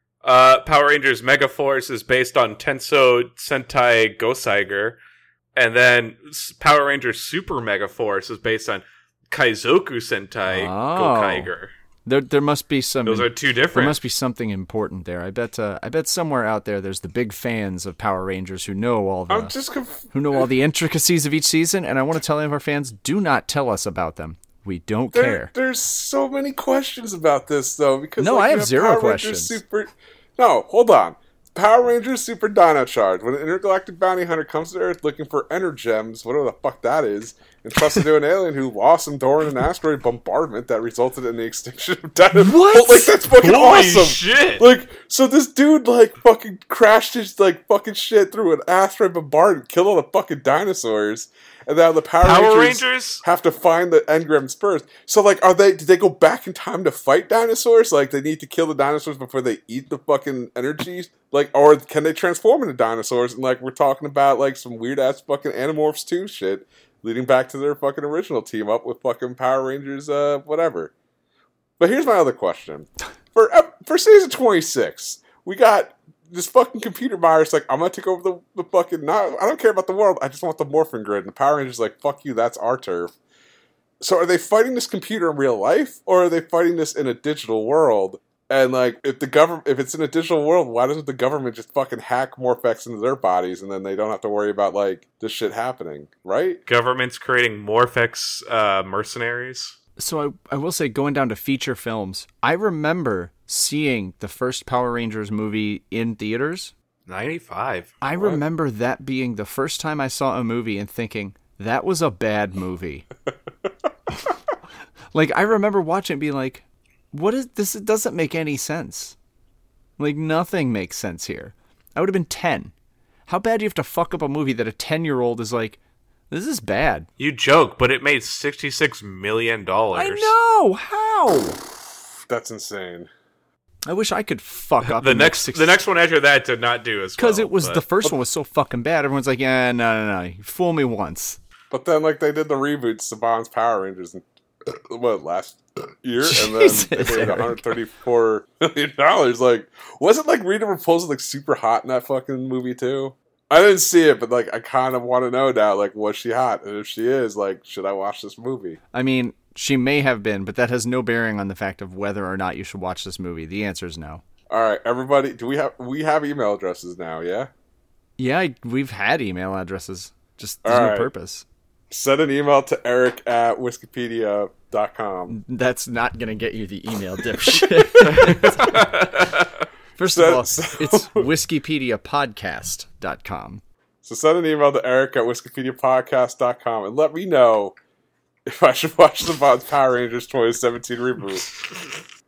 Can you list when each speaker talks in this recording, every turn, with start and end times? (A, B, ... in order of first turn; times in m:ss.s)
0:00.2-0:05.0 A
0:05.6-0:11.7 A
0:10.5-0:11.5 B
0:12.0-0:19.5 B
0:13.0-0:14.1 A
0:19.3-0:20.4 C
0:20.1-0:25.5 B
0:25.1-1:10.9 C
0:28.2-0:29.6 B
0:42.4-0:43.2 B
0:43.3-0:44.6 A
0:52.2-0:53.2 A
1:11.8-1:23.1 C
1:24.0-1:36.6 C
1:36.7-1:39.8 A
1:40.0-1:46.7 B
1:47.1-1:47.9 A
1:48.0-1:53.1 B
1:48.2-1:48.4 C
1:55.1-1:59.2 B
2:00.0-2:02.7 B
2:03.3-2:05.8 B
2:06.3-2:07.1 B
2:07.2-2:10.3 A
2:09.9-2:11.6 B
2:12.3-2:13.1 C
2:13.8-2:15.8 B
2:14.8-2:17.8 A
2:17.2-2:21.4 B
2:21.7-2:38.8 C
2:26.2-2:27.7 B
2:38.9-2:44.2 B
2:44.5-2:47.5 C
2:48.2-2:51.4 B
2:50.6-2:51.1 C
2:51.9-2:55.4 C
2:55.3-2:58.9 B
2:57.4-2:58.3 C
2:58.1-2:59.5 A
3:00.0-3:03.6 B
3:00.1-3:01.3 C
3:04.0-3:07.7 C
3:08.4-3:11.5 C